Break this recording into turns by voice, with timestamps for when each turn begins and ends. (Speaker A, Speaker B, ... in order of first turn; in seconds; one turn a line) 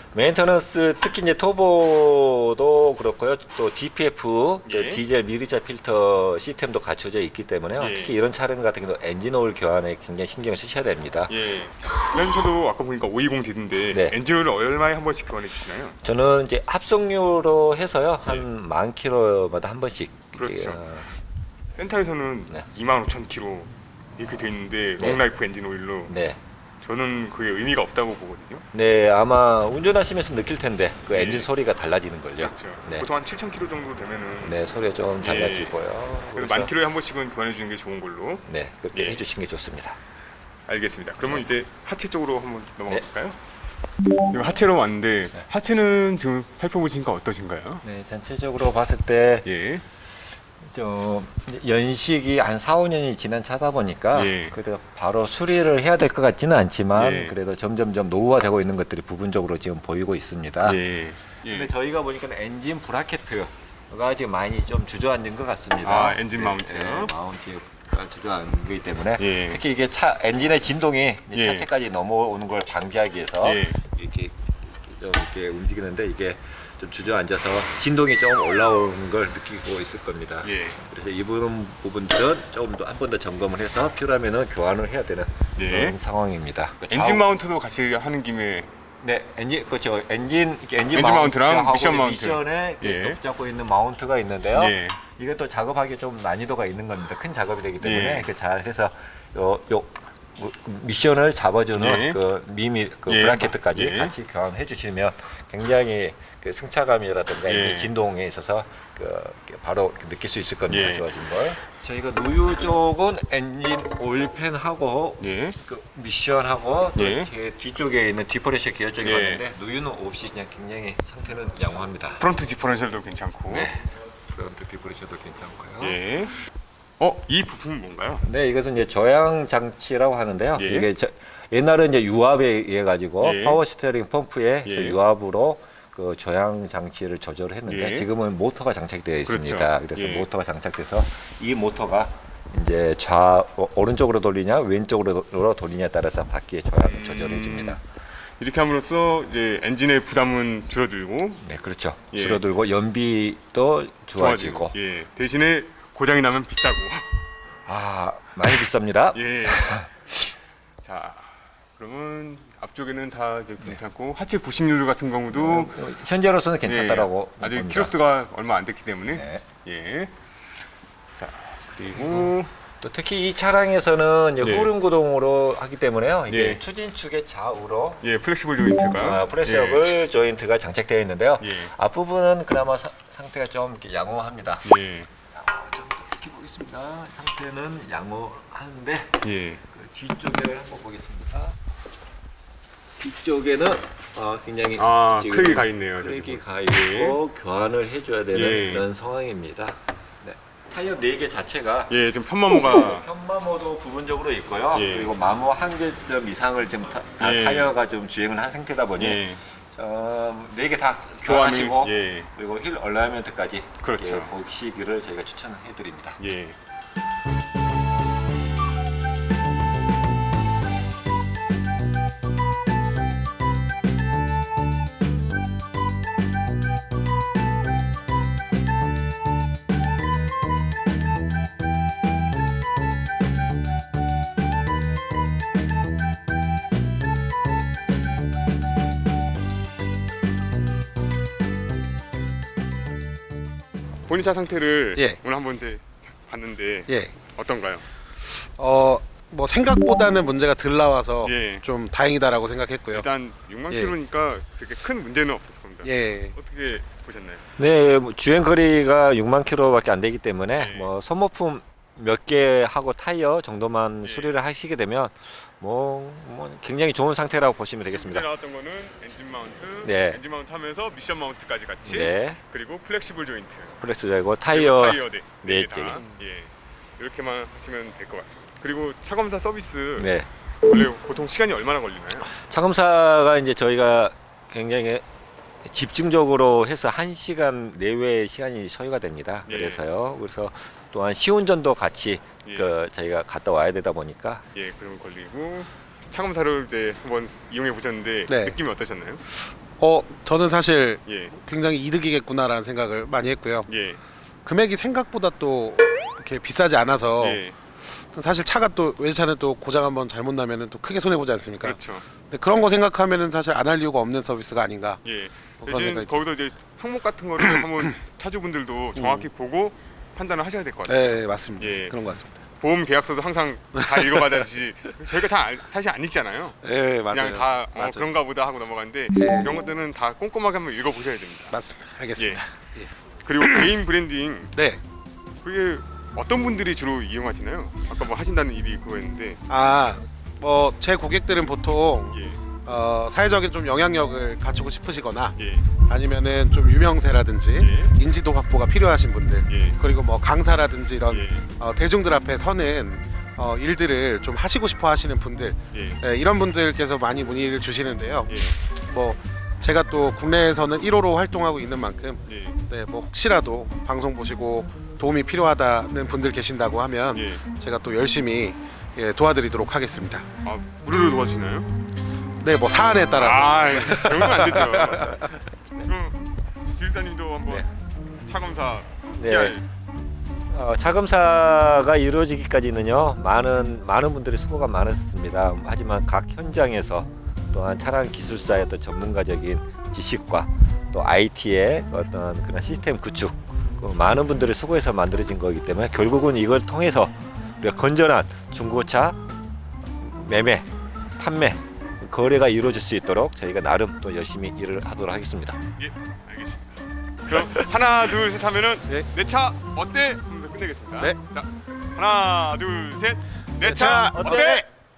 Speaker A: 0.1-11.3
Speaker B: 4.7-5.0
Speaker B: 7.8-8.2
Speaker B: 11.3-16.0
Speaker A: 13.9-14.2
Speaker A: 16.0-21.1
Speaker B: 20.3-20.8
Speaker B: 21.7-26.1
Speaker A: 25.0-25.2
Speaker A: 26.1-26.4
Speaker B: 26.8-28.7
Speaker A: 28.7-33.1
Speaker B: 31.1-31.5
Speaker B: 32.4-34.6
Speaker A: 34.4-36.7
Speaker B: 35.2-35.8
Speaker B: 36.3-39.2
Speaker A: 38.5-40.0
Speaker B: 40.7-43.4
Speaker B: 44.3-47.8
Speaker A: 47.8-49.5
Speaker B: 49.5-49.8
Speaker A: 50.6-60.8
Speaker B: 54.1-54.6
Speaker B: 57.0-57.4
Speaker B: 60.6-61.7
Speaker A: 61.5-87.3
Speaker B: 65.8-67.1
Speaker B: 69.2-69.6
Speaker B: 71.3-71.7
Speaker B: 73.4-73.8
Speaker B: 80.4-80.8
Speaker B: 85.6-86.0
Speaker B: 86.9-88.7
Speaker A: 89.0-122.2
Speaker B: 90.9-93.2
Speaker B: 94.5-95.0
Speaker B: 97.8-98.3
Speaker B: 101.8-102.2
Speaker B: 103.1-104.2
Speaker B: 107.5-107.9
Speaker B: 110.7-111.1
Speaker B: 115.2-115.6
Speaker B: 117.0-117.3
Speaker B: 119.0-119.5
Speaker B: 122.2-123.7
Speaker A: 123.5-126.0
Speaker B: 125.8-126.4
Speaker B: 127.0-128.3
Speaker A: 128.2-147.8
Speaker B: 130.6-130.9
Speaker B: 133.2-133.6
Speaker B: 134.6-135.0
Speaker B: 137.7-138.1
Speaker B: 139.3-140.3
Speaker B: 146.8-147.8
Speaker B: 148.4-151.4
Speaker A: 151.4-154.8
Speaker B: 152.1-152.4
Speaker B: 154.2-157.1
Speaker A: 157.7-159.9
Speaker B: 159.1-159.9
Speaker B: 160.8-165.8
Speaker A: 165.3-168.0
Speaker B: 166.6-170.1
Speaker A: 169.1-169.4
Speaker B: 171.2-172.5
Speaker A: 171.9-178.0
Speaker B: 174.4-174.7
Speaker B: 176.3-176.6
Speaker B: 178.0-180.0
Speaker A: 178.9-184.8
Speaker B: 181.4-181.7
Speaker B: 184.6-185.1
Speaker A: 185.3-191.6
Speaker B: 189.2-189.6
Speaker A: 193.0-201.9
Speaker B: 194.8-197.2
Speaker B: 198.3-198.8
Speaker B: 201.9-203.1
Speaker A: 202.5-216.2
Speaker B: 204.7-205.1
Speaker B: 207.2-207.8
Speaker B: 209.0-209.4
Speaker B: 211.2-212.3
Speaker B: 213.8-214.3
Speaker B: 216.2-216.6
Speaker B: 244.1-247.8
Speaker C: 246.9-247.2
Speaker C: 248.3-253.1
Speaker B: 251.2-251.7
Speaker B: 252.9-257.4
Speaker C: 253.7-254.0
Speaker C: 255.8-256.4
Speaker A: 257.6-268.3
Speaker B: 260.6-260.9
Speaker B: 264.0-264.4
Speaker B: 267.9-273.8
Speaker A: 269.8-270.2
Speaker A: 271.8-272.4
Speaker A: 273.8-276.1
Speaker B: 274.5-280.1
Speaker A: 280.0-280.3
Speaker B: 280.7-282.3
Speaker A: 282.3-285.1
Speaker A: 285.6-294.4
Speaker B: 289.5-289.8
Speaker B: 292.4-292.8
Speaker B: 294.5-299.2
Speaker C: 298.3-298.6
Speaker C: 299.3-303.7
Speaker B: 301.1-301.3
Speaker B: 303.7-304.0
Speaker C: 304.4-315.0
Speaker B: 307.2-307.6
Speaker B: 311.6-312.1
Speaker B: 315.0-322.0
Speaker C: 315.6-316.2
Speaker C: 318.9-319.3
Speaker C: 320.9-322.4
Speaker B: 322.6-331.6
Speaker C: 323.8-324.4
Speaker C: 326.6-328.1
Speaker C: 329.2-329.6
Speaker C: 331.5-332.9
Speaker B: 332.1-332.4
Speaker B: 333.2-334.6
Speaker C: 334.5-334.8
Speaker B: 335.4-339.4
Speaker C: 339.5-370.3
Speaker B: 342.1-342.4
Speaker B: 345.4-345.7
Speaker B: 347.6-347.9
Speaker B: 349.4-349.8
Speaker B: 351.1-351.5
Speaker B: 355.7-356.0
Speaker B: 358.3-358.6
Speaker B: 362.3-362.6
Speaker B: 367.1-367.4
Speaker B: 370.4-371.7
Speaker C: 372.4-375.3
Speaker B: 373.1-377.7
Speaker B: 378.2-379.6
Speaker A: 379.2-379.6
Speaker A: 380.5-399.2
Speaker A: 400.0-405.6
Speaker B: 405.8-414.7
Speaker C: 413.6-414.7